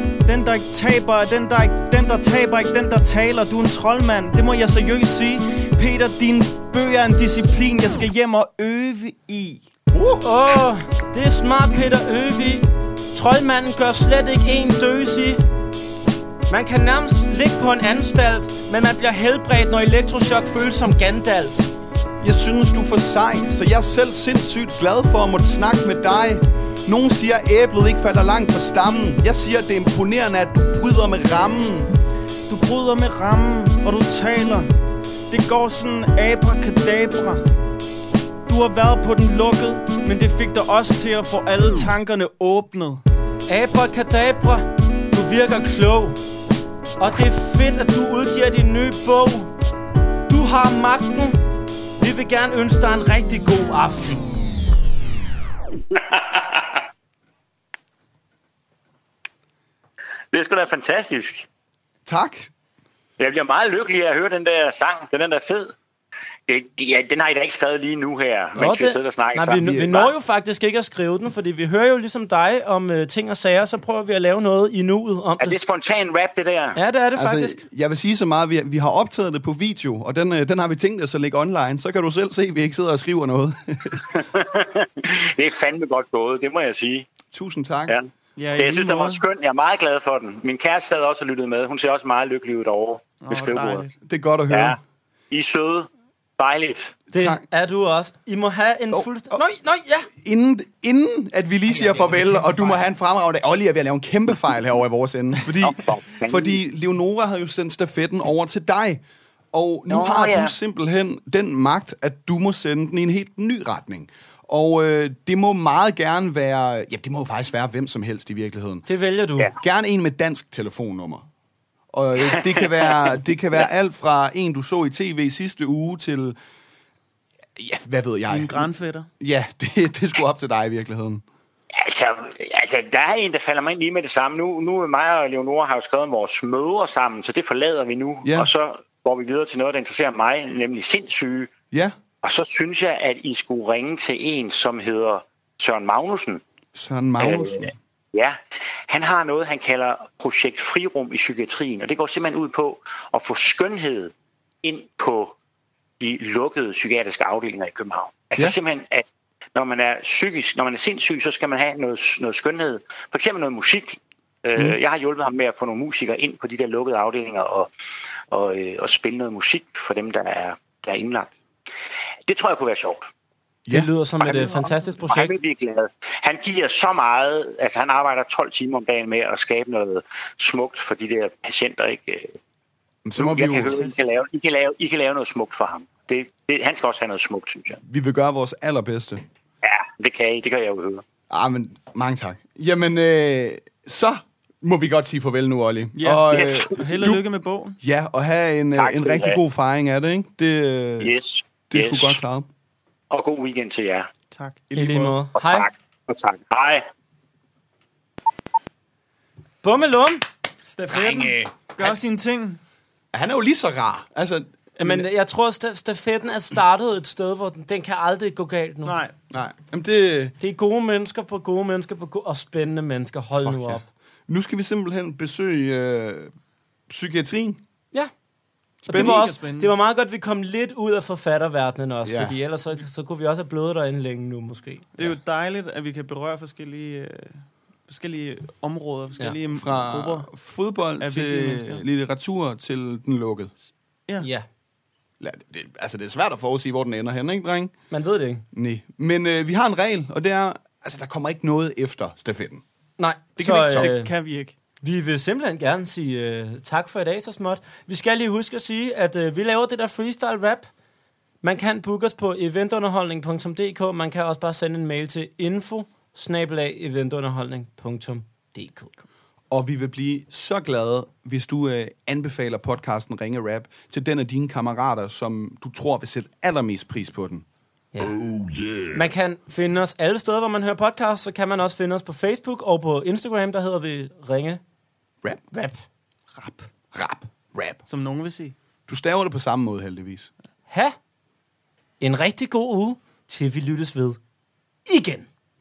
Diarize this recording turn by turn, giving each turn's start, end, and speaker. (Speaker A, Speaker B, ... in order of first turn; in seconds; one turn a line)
Speaker A: 0.2-9.6
Speaker B: 9.9-10.2
Speaker C: 10.2-15.4
Speaker C: 16.5-21.7
Speaker B: 22.2-31.9
Speaker A: 32.5-34.7
Speaker A: 35.3-37.5
Speaker A: 38.5-43.0
Speaker C: 43.5-46.2
Speaker C: 47.0-49.5
Speaker C: 50.3-51.4
Speaker C: 52.0-54.2
Speaker D: 55.9-56.8
Speaker D: 60.3-61.5
Speaker B: 62.0-62.5
Speaker D: 63.2-65.7
Speaker D: 66.5-70.1
Speaker C: 68.5-75.5
Speaker B: 69.6-69.9
Speaker D: 75.4-76.8
Speaker C: 76.8-77.6
Speaker B: 77.1-84.0
Speaker D: 84.1-87.1
Speaker B: 87.3-88.0
Speaker D: 87.9-93.8
Speaker A: 88.3-89.2
Speaker A: 93.2-93.9
Speaker B: 94.0-94.8
Speaker D: 94.5-94.8
Speaker D: 95.3-97.0
Speaker B: 97.1-97.4
Speaker C: 97.1-100.1
Speaker B: 98.9-99.4
Speaker B: 100.1-109.0
Speaker C: 101.7-102.7
Speaker D: 105.6-106.6
Speaker B: 109.5-118.8
Speaker D: 109.9-110.5
Speaker C: 118.8-119.5
Speaker B: 119.6-121.2
Speaker B: 121.9-126.4
Speaker D: 122.3-123.6
Speaker B: 127.6-131.2
Speaker A: 128.3-129.1
Speaker D: 131.8-141.5
Speaker B: 138.2-138.5
Speaker B: 141.7-141.9
Speaker D: 142.2-146.4
Speaker B: 146.7-147.7
Speaker D: 147.2-148.4
Speaker D: 148.9-155.3
Speaker D: 156.0-167.7
Speaker D: 168.3-171.3
Speaker D: 172.3-173.1
Speaker C: 173.7-175.3
Speaker A: 174.2-174.7
Speaker D: 175.1-182.3
Speaker B: 183.0-183.8
Speaker D: 183.2-187.8
Speaker A: 183.4-184.0
Speaker B: 187.8-189.2
Speaker D: 189.6-191.0
Speaker B: 191.3-197.2
Speaker A: 195.9-197.8
Speaker D: 196.3-196.7
Speaker B: 197.8-201.1
Speaker D: 198.7-199.4
Speaker D: 201.0-202.2
Speaker B: 201.7-202.5
Speaker D: 203.1-204.1
Speaker A: 204.3-204.7
Speaker B: 204.7-205.2
Speaker C: 204.7-205.7
Speaker D: 205.3-206.8
Speaker C: 209.6-210.2
Speaker A: 210.7-212.6
Speaker B: 210.9-211.9
Speaker B: 213.1-215.1
Speaker C: 214.8-219.0
Speaker A: 218.8-219.1
Speaker B: 219.3-220.3
Speaker C: 220.4-223.8
Speaker B: 223.4-226.3
Speaker B: 226.9-227.6
Speaker B: 228.8-229.3
Speaker C: 228.8-234.9
Speaker A: 228.9-229.7
Speaker B: 232.0-232.4
Speaker A: 234.9-240.3
Speaker B: 239.5-243.5
Speaker A: 241.0-241.8
Speaker C: 244.2-244.4
Speaker B: 245.2-247.7
Speaker C: 247.9-248.4
Speaker B: 248.5-252.6
Speaker C: 253.0-254.1
Speaker B: 253.3-253.9
Speaker A: 253.4-254.5
Speaker C: 254.8-260.7
Speaker C: 261.4-268.9
Speaker B: 269.5-277.4
Speaker C: 277.9-278.3
Speaker B: 278.3-278.7
Speaker C: 278.9-284.6
Speaker C: 285.5-285.8
Speaker B: 286.9-287.8
Speaker A: 287.9-288.5
Speaker B: 288.9-290.3
Speaker C: 290.7-290.9
Speaker C: 292.0-294.2
Speaker C: 294.9-295.3